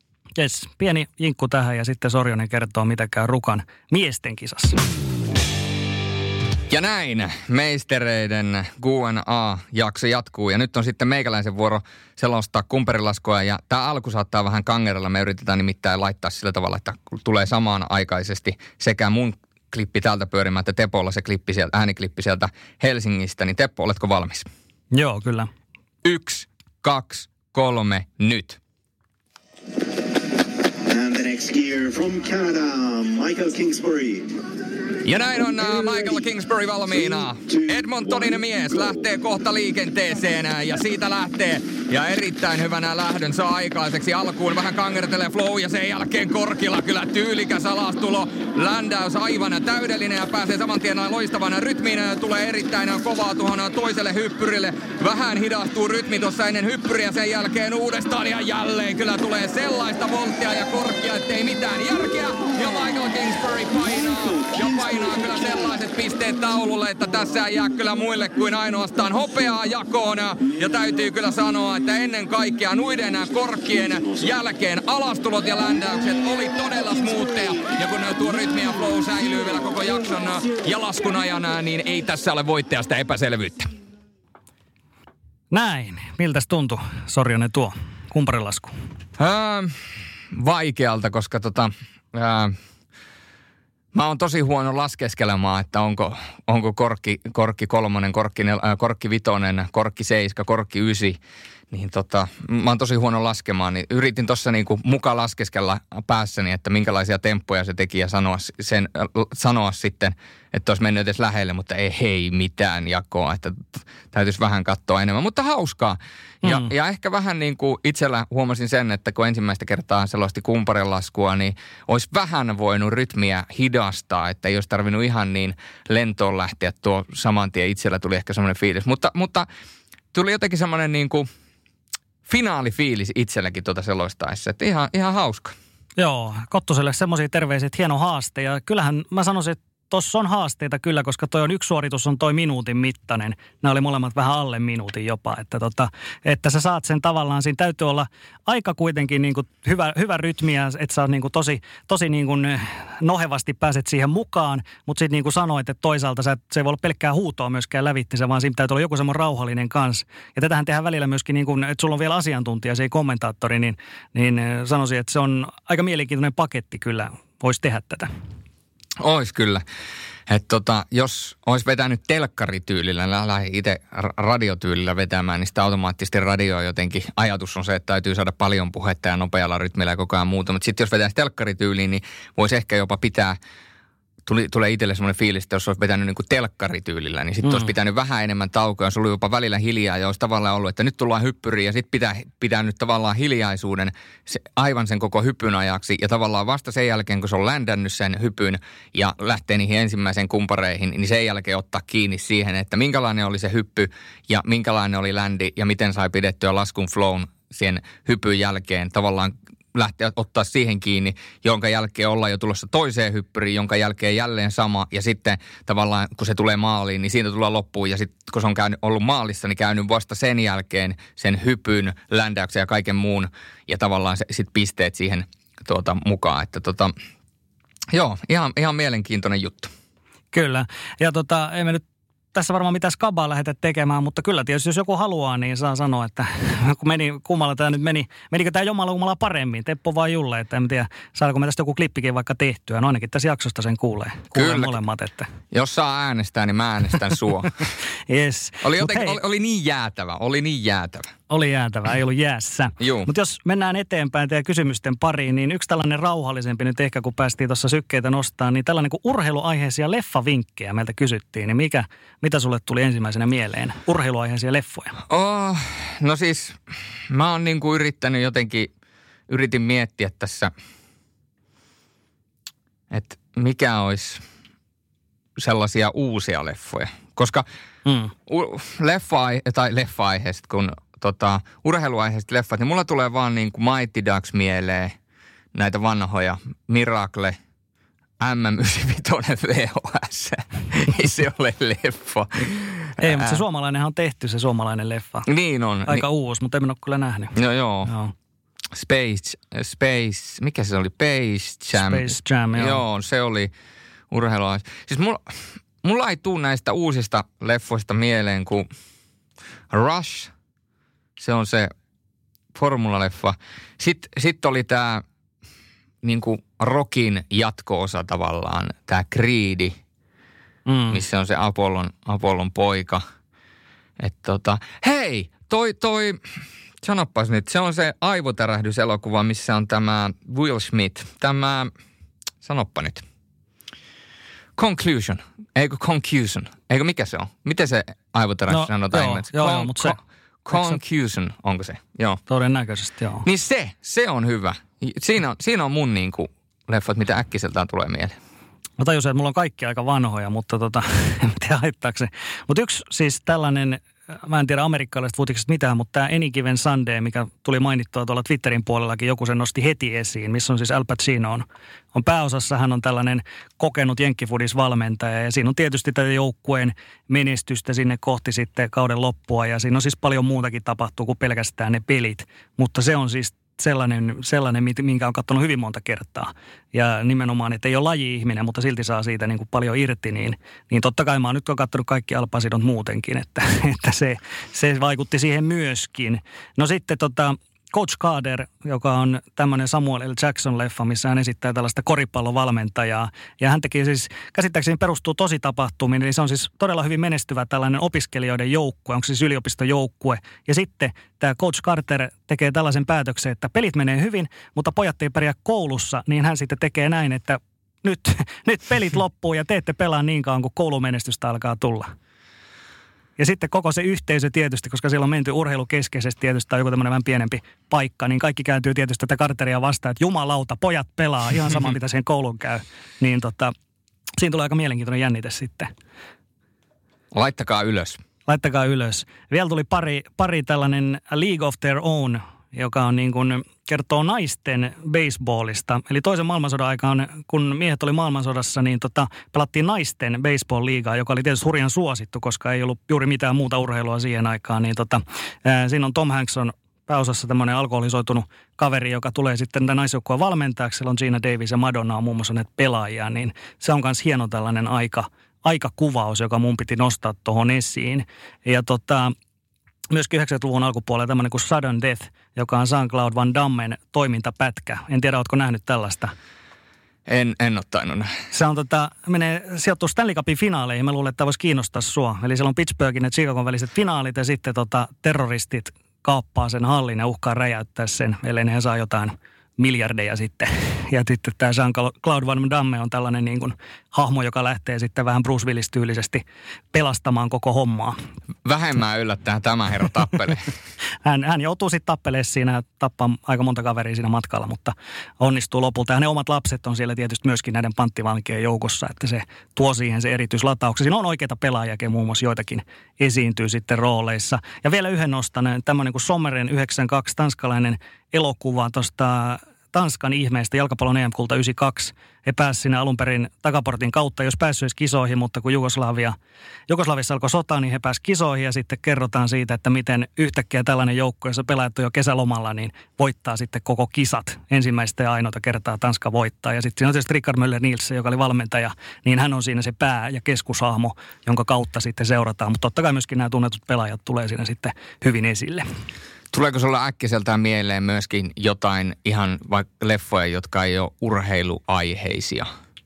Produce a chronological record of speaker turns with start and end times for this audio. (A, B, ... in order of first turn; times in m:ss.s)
0:00.4-0:04.8 A
0:06.7-0:24.5 B
0:24.9-0:25.5 A
0:26.0-0:28.6 B
0:30.8-0:34.4 C
0:35.0-1:23.7 B
1:25.5-1:28.8 A
1:29.2-1:29.8 B
1:30.3-1:32.5 B
1:33.9-1:41.2 B
1:41.7-2:09.5 B
1:56.4-1:56.7 A
2:10.1-2:11.3 B
2:12.3-2:15.6 B
2:16.0-2:48.1 A
2:49.0-2:49.6 B
2:50.3-3:03.4 B
3:04.3-3:46.9 B
3:07.4-3:07.7 A
3:47.9-3:49.7 B
3:50.3-3:51.8 A
3:52.3-4:05.3 A
4:04.4-4:04.8 B
4:05.5-4:07.7 B
4:08.1-4:09.2 A
4:08.6-4:11.1 B
4:11.3-4:25.0 A
4:12.8-4:13.1 B
4:25.1-4:26.6 B
4:27.1-4:28.7 B
4:29.3-4:30.5 B
4:32.9-4:34.2 B
4:35.4-4:37.4 B
4:37.8-4:38.1 A
4:38.3-4:45.0 B
4:45.5-4:47.4 B
4:48.2-4:53.4 B
4:53.0-4:55.3 A
4:55.3-4:56.0 B
4:55.9-4:58.1 A
4:57.4-4:57.9 B
4:58.7-5:03.5 B
5:01.8-5:02.8 A
5:04.1-5:08.7 B
5:09.7-5:10.3 B
5:11.2-5:11.7 B
5:12.5-5:15.0 B
5:16.0-5:19.8 B
5:20.7-5:21.0 A
5:20.9-5:23.0 B
5:24.0-5:26.2 B
5:26.8-5:31.7 B
5:32.4-5:33.0 B
5:34.6-5:42.2 B
5:38.5-5:40.0 A
5:40.5-5:40.8 A
5:42.3-5:43.3 A
5:43.2-5:48.2 B
5:48.8-6:51.9 A
6:53.2-7:03.5 A
7:04.2-7:05.7 A
7:07.1-7:08.0 B
7:08.3-7:39.1 A
7:39.9-7:46.1 A
7:47.1-7:48.1 B
7:48.3-8:08.0 A
8:08.4-8:10.5 B
8:11.0-8:36.2 A
8:36.7-8:55.7 A
8:56.3-9:02.5 B